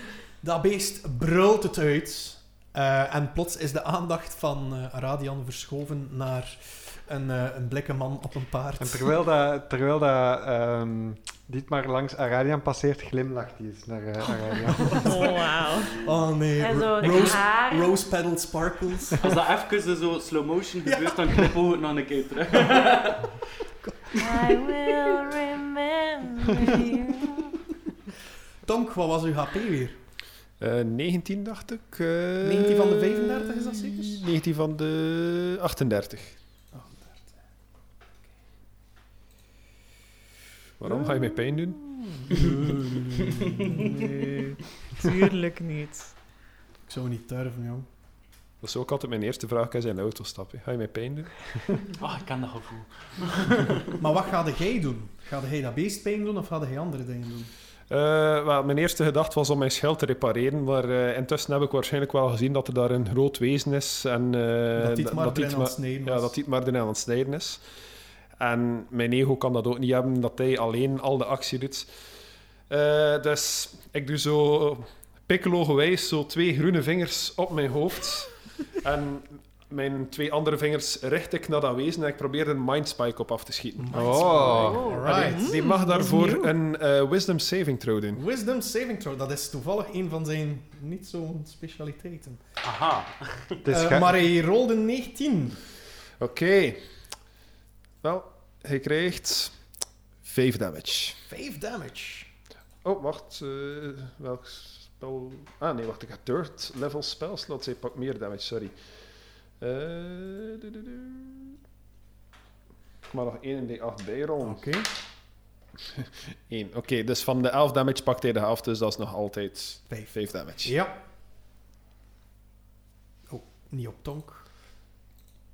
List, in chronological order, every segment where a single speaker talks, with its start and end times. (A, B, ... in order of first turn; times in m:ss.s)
0:00.4-0:09.1 A
0:08.8-0:15.2 B
0:14.9-0:15.1 A
0:15.0-0:16.0 C
0:15.9-0:19.3 A
0:16.6-0:17.9 D
0:19.2-0:23.4 E
0:20.9-0:21.3 A
0:24.1-0:27.5 D
0:28.6-0:30.0 A
0:30.6-0:36.4 F
0:32.4-0:34.2 A
0:36.7-0:37.4 A
0:40.8-0:41.8 F
0:40.8-0:44.0 A
0:42.5-0:42.7 F
0:43.4-0:43.7 E
0:43.8-0:46.1 C
0:46.9-0:47.8 A
0:48.6-0:51.9 F
0:52.0-0:53.9 E
0:54.0-0:57.5 A
0:57.9-1:07.6 F
1:04.8-1:06.3 A
1:08.4-1:11.9 F
1:12.7-1:28.2 F
1:23.8-1:25.5 A
1:23.9-1:25.0 B
1:24.4-1:25.1 D
1:25.2-1:26.5 C
1:28.1-1:32.4 A
1:32.6-1:33.7 E
1:33.6-1:34.2 B
1:33.7-1:35.6 A
1:36.2-1:36.9 F
1:38.0-1:39.6 F
1:40.2-1:41.2 F
1:41.2-1:42.3 A
1:42.8-1:48.8 F
1:49.6-1:51.5 F
1:53.1-1:54.7 F
1:54.4-1:54.9 A
1:56.0-2:00.8 F
1:59.9-2:01.0 A
2:03.3-2:04.4 A